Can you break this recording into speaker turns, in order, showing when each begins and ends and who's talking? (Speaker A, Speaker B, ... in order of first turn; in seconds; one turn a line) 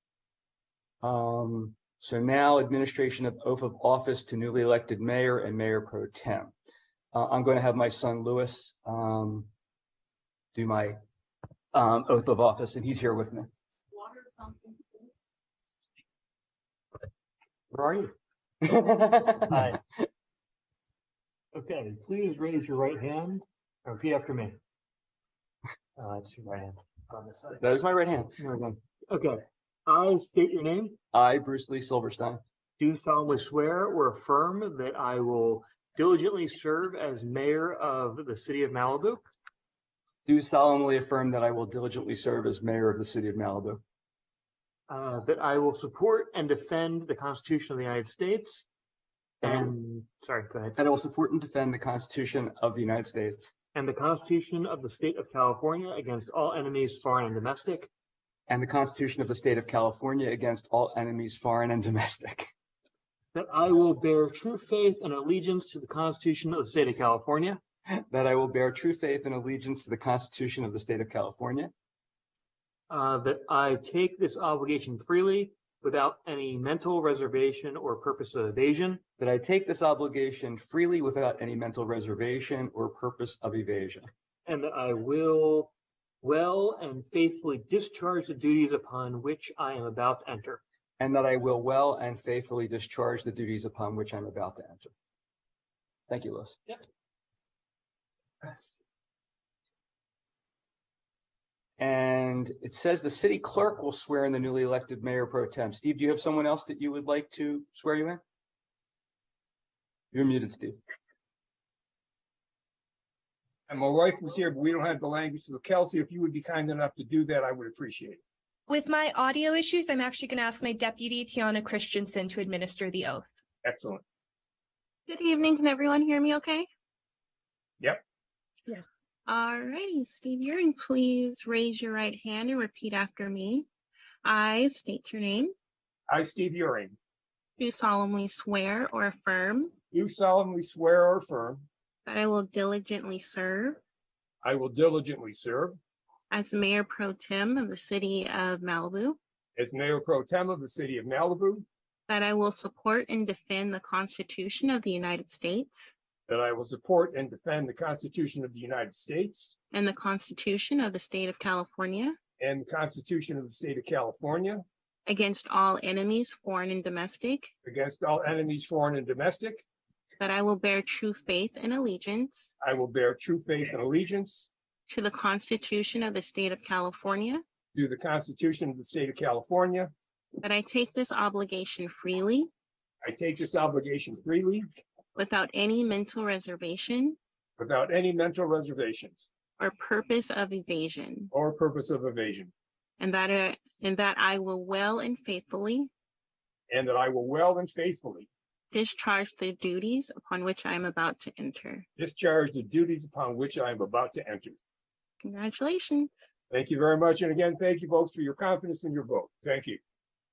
Speaker A: 1.0-6.5
Speaker A: 7.1-9.5
Speaker A: 10.5-11.0
Speaker A: 11.7-13.5
Speaker A: 18.6-19.6
Speaker B: 19.5-19.8
Speaker B: 21.5-24.6
Speaker B: 26.0-27.6
Speaker A: 27.6-28.4
Speaker B: 28.4-31.0
Speaker A: 31.1-32.4
Speaker B: 32.8-39.2
Speaker A: 40.2-43.8
Speaker B: 44.9-48.6
Speaker B: 49.4-50.8
Speaker A: 49.4-49.7
Speaker A: 50.8-53.5
Speaker B: 53.7-57.9
Speaker A: 58.5-62.5
Speaker B: 63.3-67.6
Speaker A: 68.1-71.7
Speaker B: 72.9-79.0
Speaker A: 79.2-84.1
Speaker B: 84.5-90.6
Speaker A: 91.0-94.9
Speaker A: 96.1-96.6
Speaker A: 101.8-108.2
Speaker A: 110.1-110.8
Speaker C: 113.7-118.2
Speaker D: 118.7-123.3
Speaker C: 123.6-124.0
Speaker E: 125.1-126.7
Speaker E: 129.3-133.7
Speaker E: 134.2-135.5
Speaker C: 136.1-137.0
Speaker E: 137.6-139.7
Speaker C: 139.9-141.7
Speaker E: 142.1-143.8
Speaker C: 144.4-145.8
Speaker E: 146.3-149.2
Speaker C: 149.6-151.7
Speaker E: 152.1-155.9
Speaker C: 156.3-159.5
Speaker E: 159.7-162.2
Speaker C: 162.4-164.6
Speaker E: 165.1-167.5
Speaker C: 167.6-169.6
Speaker E: 170.2-172.5
Speaker C: 172.6-174.5
Speaker E: 174.9-177.4
Speaker C: 177.7-179.9
Speaker E: 180.4-182.5
Speaker C: 183.0-184.7
Speaker E: 185.2-187.2
Speaker C: 187.6-189.2
Speaker E: 189.6-191.3
Speaker C: 191.3-192.5
Speaker E: 193.0-195.9
Speaker C: 196.7-198.3
Speaker E: 198.7-201.8
Speaker C: 202.0-204.6
Speaker E: 205.2-206.1
Speaker C: 206.5-209.8